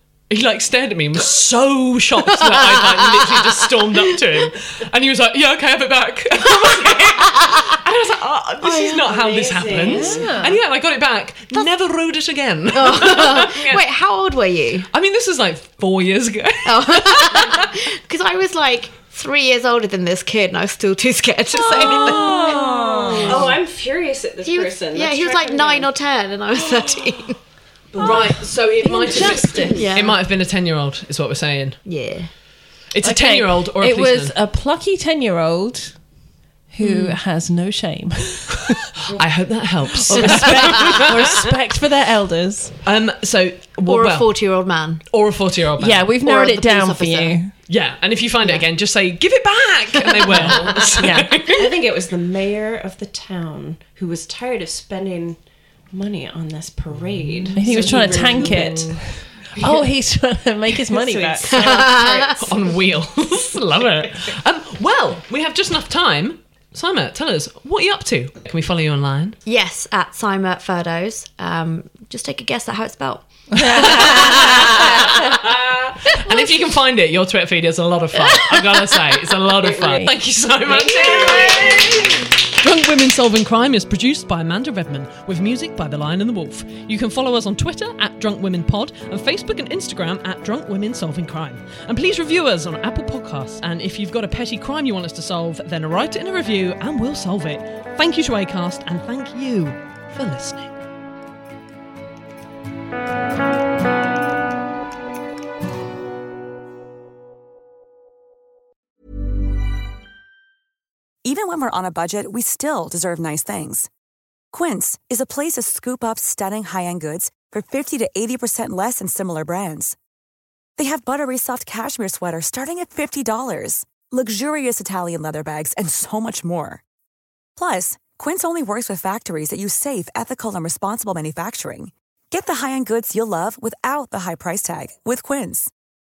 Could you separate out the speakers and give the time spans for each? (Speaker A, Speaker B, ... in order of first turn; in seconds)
Speaker A: 0.3-13.8, 14.9-17.7, 21.6-23.4, 26.6-27.1, 27.9-31.8, 32.9-34.3, 39.1-41.5, 42.8-44.3, 45.1-46.1, 47.7-51.8, 57.0-58.9, 62.4-69.4, 74.0-100.8
Speaker B: 2.8-3.2, 8.6-9.1, 12.7-14.9, 16.6-23.4, 24.4-27.4, 29.7-30.2, 31.8-32.3, 36.8-37.2, 40.4-41.0, 43.9-45.0, 46.2-47.4, 50.4-50.8, 61.6-62.6, 69.5-75.0
Speaker C: 9.1-10.4, 23.3-25.9, 51.5-55.4, 55.9-59.0, 59.5-59.8, 60.9-62.5, 80.7-82.0
Speaker D: 9.9-10.6, 22.0-23.4, 28.0-29.9, 33.0-35.9, 36.7-38.8, 40.0-42.8, 45.8-47.5, 50.3-51.3, 57.5-61.8, 73.5-75.1, 78.4-78.7, 79.6-80.1
Speaker E: 111.2-113.9, 114.5-120.0, 120.8-126.8, 127.5-135.7